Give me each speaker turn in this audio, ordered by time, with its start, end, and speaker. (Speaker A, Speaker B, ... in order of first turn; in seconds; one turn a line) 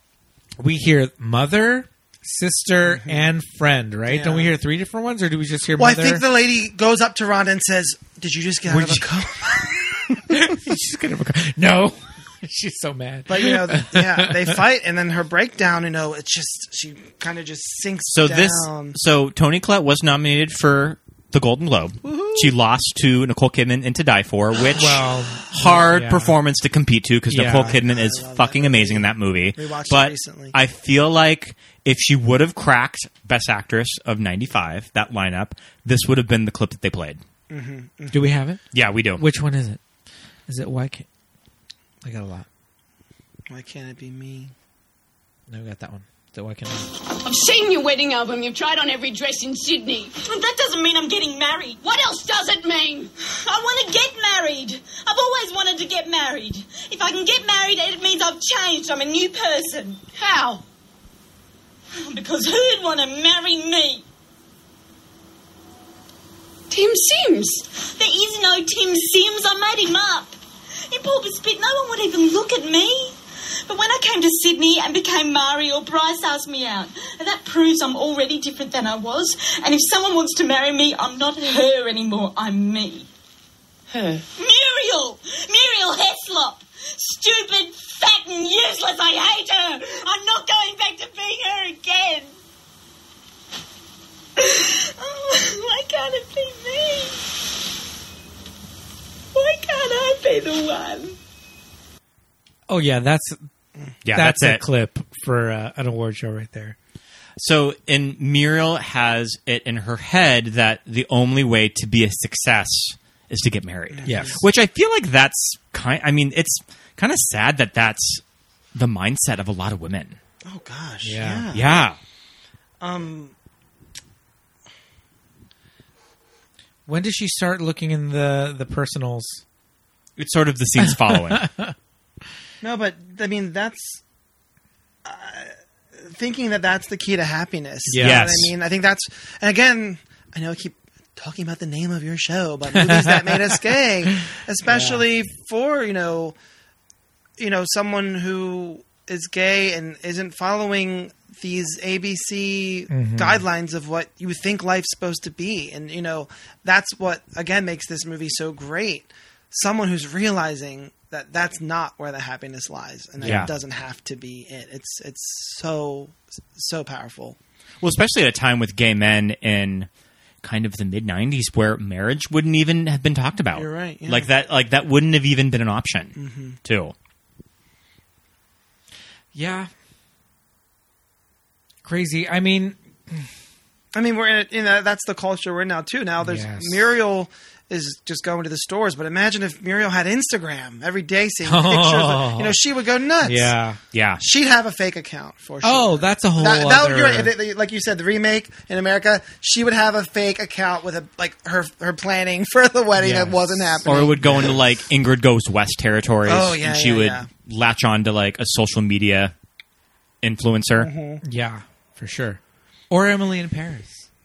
Speaker A: 0.6-6.2
Speaker B: 2.9-3.3
Speaker B: 4.1-4.5
Speaker B: 5.8-10.5
Speaker A: 8.7-9.2
Speaker A: 10.2-14.6
Speaker B: 13.3-19.0
Speaker C: 18.1-37.2
Speaker B: 22.1-22.5
Speaker A: 24.8-26.4
Speaker A: 27.3-27.8
Speaker B: 27.5-30.6
Speaker B: 37.5-38.3
Speaker A: 38.1-38.6
Speaker C: 38.7-39.2
Speaker A: 39.2-39.8
Speaker A: 40.5-41.1
Speaker A: 42.0-42.5
Speaker B: 43.5-44.5
Speaker A: 45.5-46.9
Speaker D: 47.2-50.2
Speaker E: 50.2-52.0
Speaker D: 51.8-53.1
Speaker E: 53.4-60.0
Speaker D: 60.2-60.6
Speaker E: 62.0-64.0
Speaker D: 66.7-67.7
Speaker E: 67.8-70.4
Speaker E: 70.9-83.1
Speaker E: 84.0-92.3
Speaker E: 94.4-97.3
Speaker E: 99.3-101.2
Speaker A: 102.7-103.4
Speaker C: 104.0-104.6
Speaker A: 104.1-106.8
Speaker C: 107.4-118.2
Speaker B: 113.9-114.4
Speaker A: 114.1-114.4
Speaker C: 118.7-120.2
Speaker B: 120.5-121.7
Speaker A: 121.0-121.5
Speaker C: 121.5-122.0
Speaker B: 122.8-123.3
Speaker A: 126.9-129.4
Speaker C: 130.2-131.5
Speaker A: 131.3-131.7
Speaker B: 132.6-134.0
Speaker B: 135.1-146.4
Speaker A: 137.9-138.3
Speaker C: 138.0-138.5
Speaker A: 142.8-143.6
Speaker A: 144.7-145.0
Speaker B: 147.4-167.4
Speaker A: 152.9-153.4
Speaker A: 163.2-163.5
Speaker C: 163.2-163.5
Speaker C: 167.8-169.9
Speaker C: 170.4-176.9
Speaker B: 173.5-174.3
Speaker B: 176.2-176.6
Speaker A: 179.3-179.7
Speaker A: 181.8-183.3
Speaker B: 183.9-193.5
Speaker A: 186.2-186.9
Speaker A: 191.4-192.6
Speaker A: 193.2-193.8
Speaker C: 193.9-194.2
Speaker B: 194.2-204.5
Speaker A: 195.6-197.3
Speaker A: 203.0-204.5
Speaker C: 203.8-209.3
Speaker B: 206.3-207.3
Speaker C: 210.2-210.9
Speaker B: 210.8-211.2
Speaker A: 211.2-212.4
Speaker A: 212.9-214.1